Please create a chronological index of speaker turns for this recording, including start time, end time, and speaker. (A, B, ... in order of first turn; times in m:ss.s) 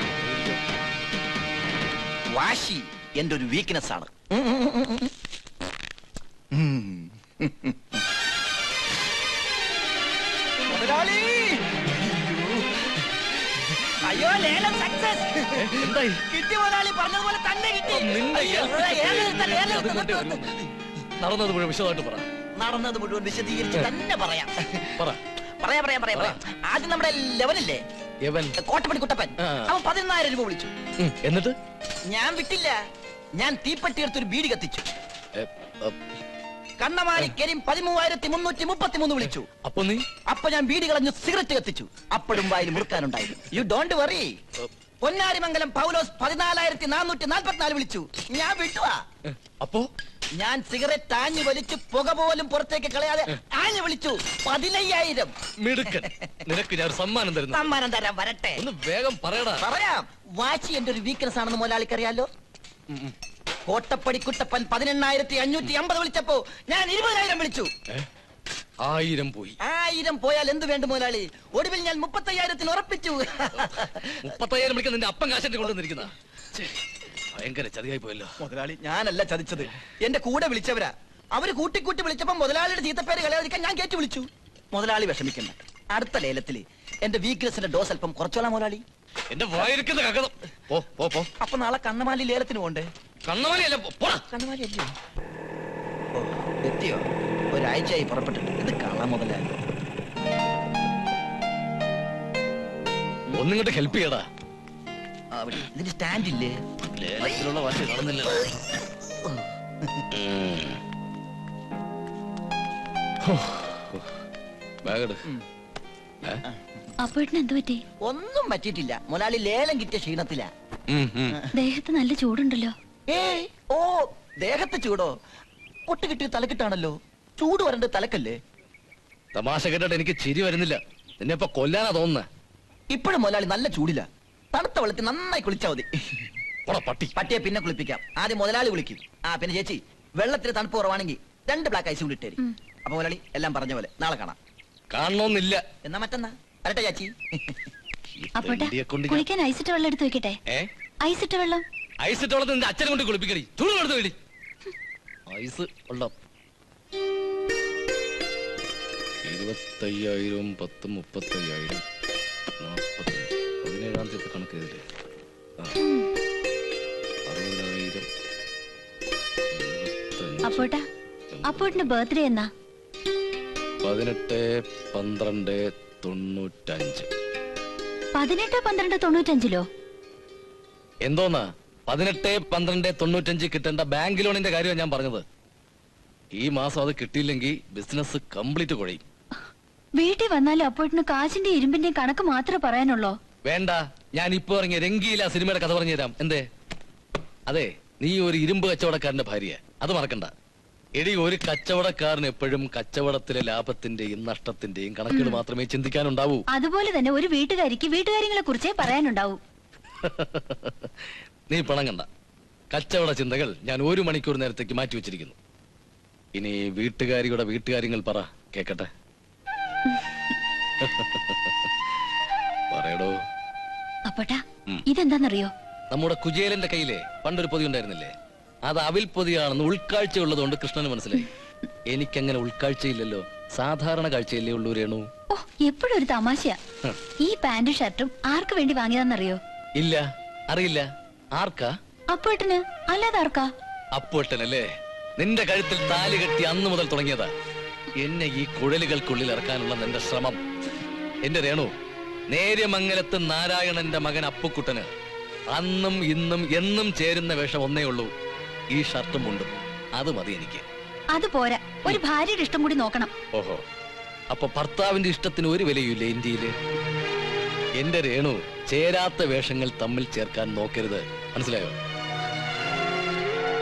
0:02.3-0:05.1 A
0:06.5-0:07.8 A
0:10.7-0:12.6 A
0:14.0-0:20.5 A
0:15.6-0:16.2 B
0:17.9-0:20.5 B
0:21.2-0:22.3 B
0:22.6-0:24.9 A
0:25.6-0:27.8 A
0:26.1-0:26.4 B
0:28.3-0:28.6 B
0:28.6-0:30.7 A
0:29.4-0:29.7 B
0:31.0-0:31.5 B
0:32.1-0:32.8 A
0:33.4-0:34.8 A
0:35.4-0:36.0 B
0:36.8-0:39.5 A
0:39.6-0:40.0 B
0:40.3-0:44.4 A
0:45.0-0:49.0 A
0:49.3-0:49.9 B
0:50.4-0:55.3 A
0:55.6-0:57.7 B
0:57.5-0:58.6 A
0:58.6-0:59.6 B
0:59.6-1:02.3 A
1:03.7-1:07.7 A
1:08.8-1:09.6 B
1:09.6-1:13.9 A
1:13.6-1:16.7 B
1:17.3-1:18.4 B
1:18.4-1:28.8 A
1:29.3-1:31.3 B
1:31.4-1:32.9 A
1:33.3-1:34.2 B
1:34.2-1:34.9 A
1:36.2-1:39.6 A
1:43.4-1:44.2 B
1:45.3-1:46.5 A
1:47.0-1:48.4 B
1:50.2-1:50.8 B
1:53.3-1:54.0 B
1:54.8-1:55.2 B
1:57.0-1:57.8 C
1:58.0-2:00.5 A
2:00.9-2:01.4 B
2:01.5-2:02.7 C
2:03.1-2:05.1 A
2:05.9-2:08.4 A
2:09.4-2:12.3 B
2:12.9-2:15.9 A
2:16.7-2:17.2 B
2:17.2-2:24.4 A
2:24.9-2:25.6 B
2:25.8-2:27.5 A
2:28.2-2:29.3 B
2:28.4-2:30.4 C
2:31.0-2:31.6 C
2:32.0-2:34.2 B
2:35.3-2:36.1 B
2:39.3-2:41.8 B
2:42.6-2:44.8 B
2:47.3-2:48.1 B
2:49.5-2:50.7 B
2:50.4-2:50.8 C
2:51.3-2:51.9 B
2:51.5-2:52.5 C
2:53.8-2:57.1 B
2:58.2-2:59.6 C
3:01.0-3:05.2 B
3:06.4-3:09.0 B
3:10.0-3:13.2 C
3:13.5-3:16.4 B
3:17.5-3:20.3 B
3:21.0-3:26.4 B
3:25.1-3:25.4 C
3:26.5-3:29.4 C
3:30.0-3:30.9 B
3:31.5-3:32.1 B
3:32.7-3:35.4 B
3:36.4-3:38.9 B
3:40.8-3:41.6 B
3:42.7-3:43.2 B
3:44.1-3:45.5 C
3:45.9-3:48.1 B
3:48.7-3:51.3 B
3:51.9-3:55.1 B
3:55.3-3:56.6 C
3:57.2-3:59.4 C
3:59.8-4:01.7 B
4:02.1-4:03.5 C
4:04.0-4:04.7 B
4:05.2-4:07.3 B
4:08.0-4:10.4 B
4:11.2-4:11.7 B
4:12.3-4:14.9 B
4:15.5-4:18.1 B
4:18.7-4:20.6 B
4:21.1-4:23.1 C
4:23.3-4:23.6 B
4:24.3-4:26.5 B
4:27.8-4:31.8 B